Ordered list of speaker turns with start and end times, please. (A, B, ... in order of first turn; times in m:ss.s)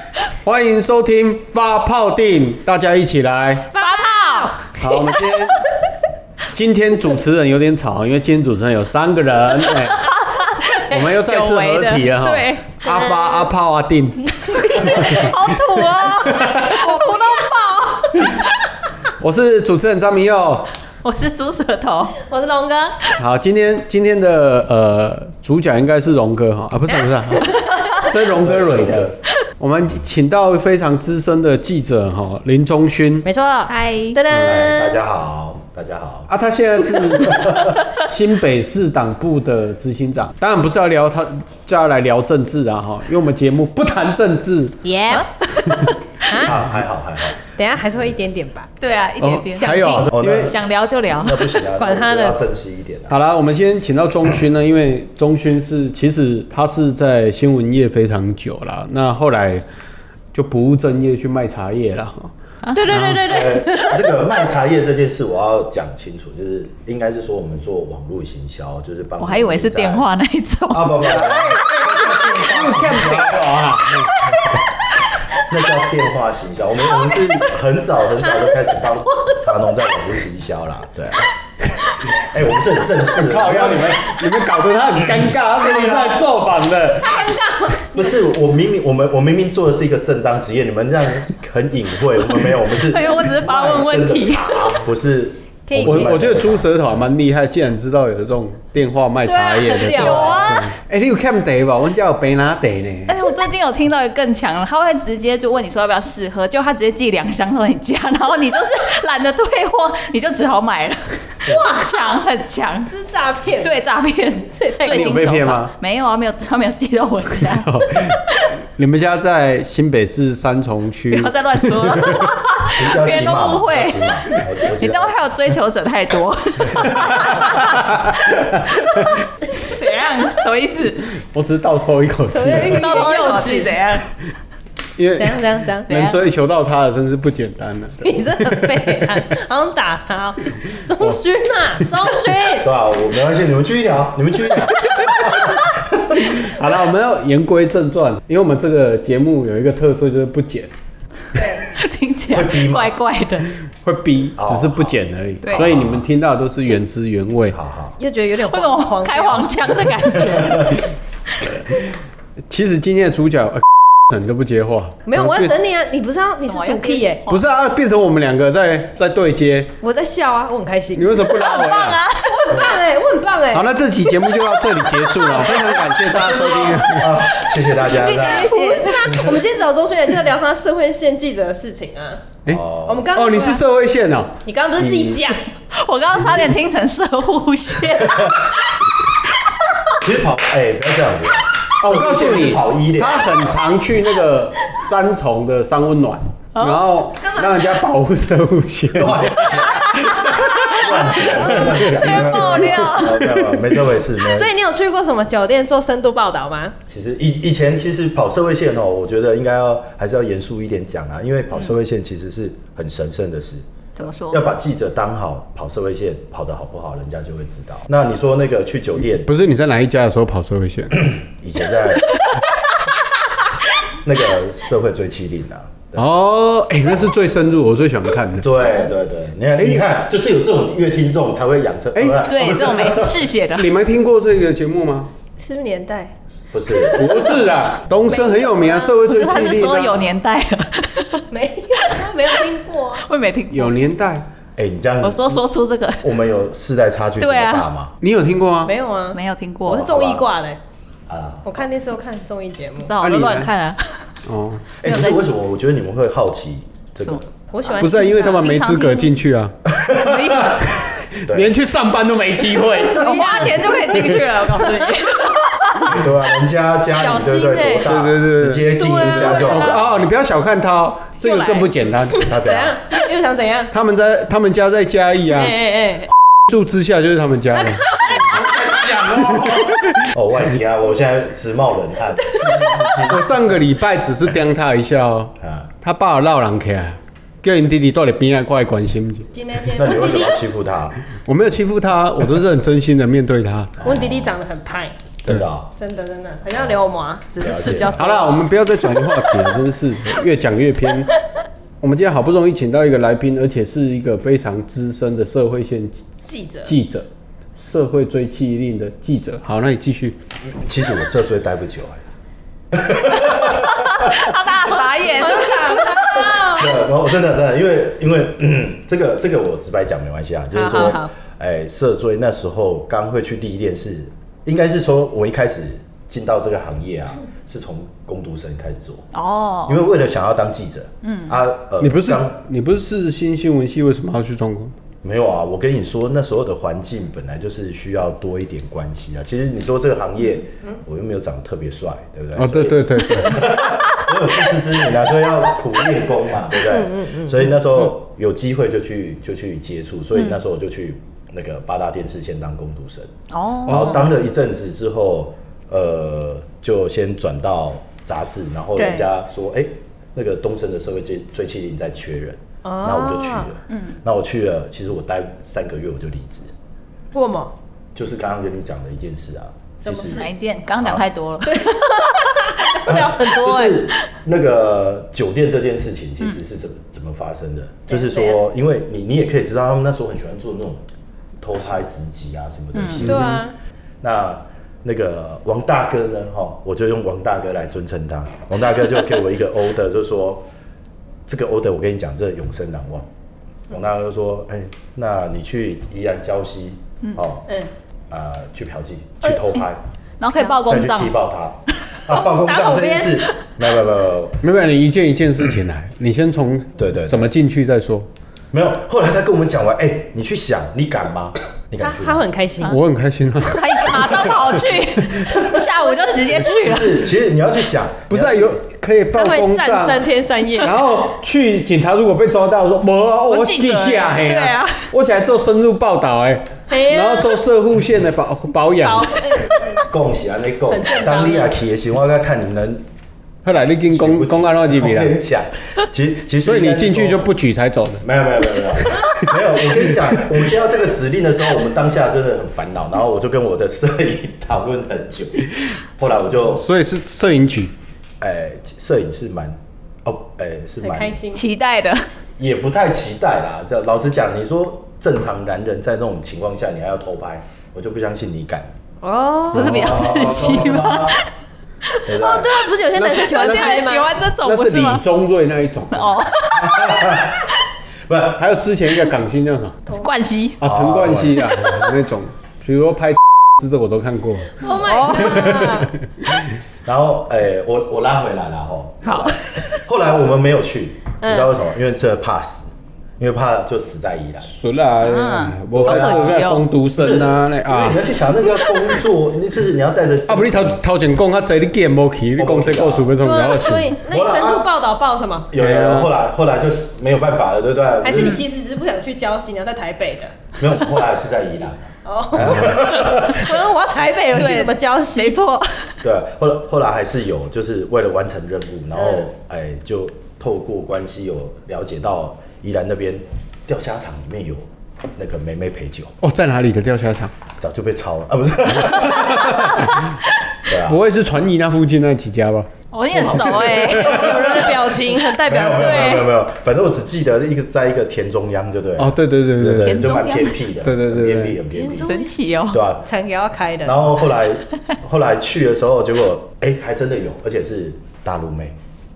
0:00.4-0:03.7 A
0:03.7-0:04.8 B
0:03.8-0:04.7 C
0:04.8-0:05.6 A
0:06.5-0:10.2 A
0:10.0-0:12.6 C
0:10.8-0:15.3 A
0:12.8-0:13.5 B
0:14.7-0:15.3 B
0:14.7-0:17.7 C
0:16.2-0:16.8 A
0:16.7-0:18.1 B
0:19.2-0:20.7 A
0:21.0-0:22.2 C
0:22.2-0:23.0 B
0:23.2-0:33.3 A
0:26.9-0:27.6 B
0:28.3-0:29.2 D
0:33.2-0:35.0 B
0:33.7-0:34.2 C
0:34.4-0:36.3 D
0:36.3-0:44.8 A
0:37.1-0:37.8 D
0:44.8-0:45.3 B
0:45.1-0:45.9 C
0:46.2-0:46.6 B
0:46.4-0:47.4 D
0:47.6-0:48.7 B
0:48.8-0:51.6 C
0:49.2-0:50.5 A
0:49.6-0:50.1 B
0:49.9-0:50.6 D
0:51.1-0:53.2 D
0:51.8-0:52.4 B
0:53.1-0:59.6 A
1:00.3-1:02.3 A
1:02.6-1:02.9 C
1:02.7-1:04.3 B
1:02.9-1:03.2 A
1:03.2-1:10.0 D
1:09.2-1:11.1 C
1:10.7-1:13.7 D
1:11.0-1:14.2 A
1:14.2-1:14.4 C
1:15.3-1:21.3 D
1:18.3-1:18.6 B
1:22.0-1:24.2 D
1:23.1-1:27.2 A
1:25.0-1:26.2 D
1:27.0-1:28.2 B
1:27.9-1:37.1 D
1:32.8-1:34.8 C
1:35.7-1:36.4 B
1:35.8-1:43.2 A
1:39.2-1:40.5 B
1:39.9-1:40.7 C
1:43.1-1:52.9 C
1:51.4-1:52.2 B
1:52.9-1:53.8 B
1:53.6-1:58.3 C
1:54.5-1:55.4 B
1:54.8-1:55.7 A
1:57.5-1:58.2 A
1:58.8-2:02.3 A
2:01.1-2:04.1 C
2:02.6-2:05.2 D
2:04.8-2:07.7 C
2:06.8-2:07.2 D
2:06.8-2:09.2 A
2:09.6-2:11.1 C
2:11.3-2:12.9 A
2:12.3-2:14.0 B
2:12.7-2:14.0 C
2:15.0-2:19.1 A
2:15.2-2:15.9 B
2:15.9-2:16.2 C
2:18.0-2:22.7 B
2:22.6-2:26.4 D
2:26.2-2:30.7 A
2:31.3-2:31.7 B
2:31.7-2:33.5 C
2:32.3-2:33.0 D
2:33.8-2:37.6 A
2:34.4-2:35.0 D
2:35.5-2:36.0 D
2:37.5-2:38.0 D
2:38.0-2:40.4 B
2:38.5-2:40.8 C
2:40.4-2:40.7 D
2:42.5-2:45.5 A
2:45.0-2:47.2 B
2:46.5-2:47.4 C
2:47.3-2:49.7 A
2:49.8-2:51.2 B
2:50.9-2:52.0 A
2:51.2-2:52.6 C
2:52.2-2:53.7 B
2:53.5-2:57.1 A
2:54.4-2:59.3 C
2:56.0-2:59.4 D
2:58.4-3:02.3 B
3:02.4-3:04.3 A
3:02.5-3:03.1 D
3:02.8-3:03.6 B
3:04.4-3:05.5 B
3:04.8-3:05.2 D
3:05.7-3:08.6 C
3:06.1-3:06.6 D
3:08.0-3:08.5 D
3:10.0-3:13.6 D
3:11.8-3:20.4 A
3:16.6-3:16.8 C
3:17.2-3:17.6 B
3:18.9-3:24.5 D
3:19.5-3:23.2 C
3:20.7-3:23.0 B
3:21.4-3:21.9 A
3:23.2-3:23.7 A
3:24.3-3:26.8 B
3:26.9-3:39.3 D
3:34.0-3:34.5 C
3:39.2-3:41.1 A
3:41.0-3:42.4 D
3:42.1-3:42.4 C
3:44.0-3:46.0 D
3:45.9-3:48.6 A
3:48.4-3:53.3 D
3:51.9-3:52.2 A
3:52.2-3:53.7 C
3:53.5-3:55.1 A
3:55.4-3:56.1 B
3:56.5-3:57.4 D
3:56.8-3:57.5 B
3:56.9-4:00.0 A
3:58.0-3:59.0 B
3:59.1-4:01.2 C
4:01.3-4:03.0 B
4:03.0-4:03.7 C
4:03.5-4:04.2 A
4:04.6-4:05.4 D
4:05.0-4:06.1 C
4:06.0-4:08.0 D
4:07.2-4:07.6 C
4:08.0-4:08.7 A
4:08.6-4:10.6 B
4:09.1-4:09.9 C
4:09.7-4:10.3 D
4:11.1-4:11.4 D
4:11.4-4:13.4 B
4:12.8-4:14.0 C
4:13.0-4:13.5 A
4:14.2-4:14.6 A
4:14.8-4:17.3 D
4:14.8-4:15.2 C
4:17.0-4:19.2 C
4:17.5-4:18.5 B
4:17.8-4:19.5 A
4:19.6-4:21.5 D
4:20.0-4:20.6 C
4:20.8-4:24.2 A
4:22.7-4:25.1 B
4:22.8-4:26.1 C
4:25.8-4:29.9 D
4:26.9-4:27.9 B
4:27.8-4:32.3 A
4:28.7-4:29.8 B
4:31.2-4:31.7 C
4:32.1-4:33.7 B
4:32.3-4:32.8 D
4:33.7-4:35.6 A
4:35.3-4:36.1 B
4:36.5-4:40.1 A
4:37.6-4:38.4 B
4:38.4-4:43.5 D
4:43.0-4:49.3 A
4:45.4-4:45.7 D
4:49.3-4:50.4 B
4:49.7-4:51.0 D
4:51.2-4:53.8 A
4:53.8-4:54.3 D
4:53.8-4:54.9 B
4:55.2-4:55.7 D
4:55.8-4:58.3 B
4:57.4-4:58.2 D
4:57.9-5:01.1 A
5:01.8-5:10.2 A
5:06.3-5:06.7 B
5:10.4-5:12.0 D
5:12.7-5:14.4 D
5:13.5-5:16.4 C
5:14.7-5:16.8 B
5:16.1-5:29.1 D
5:20.5-5:21.1 B
5:29.1-5:29.8 C
5:29.6-5:32.4 D
5:31.0-5:31.4 C
5:31.8-5:34.7 A
5:35.0-5:53.1 D
5:42.4-5:43.5 A
5:46.5-5:47.5 B
5:53.3-5:54.1 C
5:53.6-6:06.5 D
5:53.7-5:54.0 A
6:02.6-6:03.5 B
6:03.7-6:04.0 C
6:07.1-6:07.5 B
6:07.9-6:11.0 D
6:09.8-6:10.3 B
6:10.0-6:12.3 C
6:11.4-6:13.8 B
6:12.8-6:20.8 D
6:17.9-6:18.4 B
6:21.4-6:23.4 D
6:22.8-6:23.2 C
6:23.0-6:23.4 A
6:23.0-6:23.5 B
6:24.0-6:30.5 D
6:31.2-6:33.1 D
6:33.7-6:37.5 D
6:38.1-6:39.8 D
6:40.2-6:41.1 C
6:40.6-6:44.4 D
6:42.1-6:43.3 B
6:44.4-6:48.1 A
6:46.8-6:47.3 D
6:48.5-6:52.2 D
6:51.8-6:52.8 B
6:52.6-6:54.3 A
6:53.4-6:57.1 C
6:55.0-6:55.3 A
6:55.4-6:56.6 B
6:56.2-6:58.6 D
6:58.1-7:00.0 A
6:59.1-7:00.8 B
7:00.6-7:09.2 A
7:03.3-7:04.8 C
7:06.7-7:07.4 B
7:08.7-7:09.8 B
7:09.9-7:12.9 D
7:10.7-7:11.5 B
7:13.4-7:15.2 A
7:13.8-7:17.3 D
7:16.4-7:18.0 A
7:18.0-7:25.4 D
7:19.0-7:20.2 A
7:26.0-7:26.6 D
7:26.5-7:27.7 A
7:28.2-7:31.2 D
7:30.8-7:31.4 B
7:31.3-7:32.0 C
7:32.4-7:38.7 D
7:39.0-7:40.0 B
7:39.5-7:41.2 C
7:39.5-7:40.3 A
7:39.6-7:41.2 D
7:42.0-7:42.6 D
7:42.2-7:44.1 B
7:42.9-7:43.9 A
7:43.0-7:45.0 C
7:44.4-7:46.2 A
7:45.9-7:47.2 C
7:46.5-7:47.5 D
7:48.1-7:48.4 D
7:48.4-7:49.8 A
7:49.9-7:50.6 C
7:50.6-7:54.7 A
7:50.6-7:51.6 D
7:54.6-7:55.9 B
7:54.7-7:55.8 C
7:55.6-7:55.8 A
7:56.8-8:04.5 D
7:59.0-7:59.8 C
8:01.2-8:01.5 B
8:04.5-8:08.0 A
8:05.0-8:06.7 C
8:05.7-8:10.8 D
8:10.3-8:14.0 A
8:12.4-8:13.2 D
8:13.2-8:15.5 B
8:14.0-8:14.7 D
8:15.5-8:18.4 D
8:15.6-8:16.1 A
8:18.0-8:20.3 B
8:20.6-8:23.5 D
8:22.0-8:25.4 B
8:24.3-8:25.9 C
8:26.0-8:36.1 D
8:29.0-8:29.2 B
8:36.2-8:37.3 A
8:37.6-8:40.0 D
8:40.6-8:41.0 D
8:40.8-8:44.3 A
8:42.9-8:44.6 C
8:43.1-8:44.8 D
8:43.9-8:46.3 B
8:45.4-8:52.2 D
8:45.7-8:46.3 C
8:49.0-8:50.1 A
8:49.8-8:50.6 C
8:50.8-8:51.6 A
8:51.7-8:52.3 B
8:51.9-8:52.8 C
8:52.7-8:53.0 D
8:53.0-8:54.0 B
8:53.8-8:58.8 D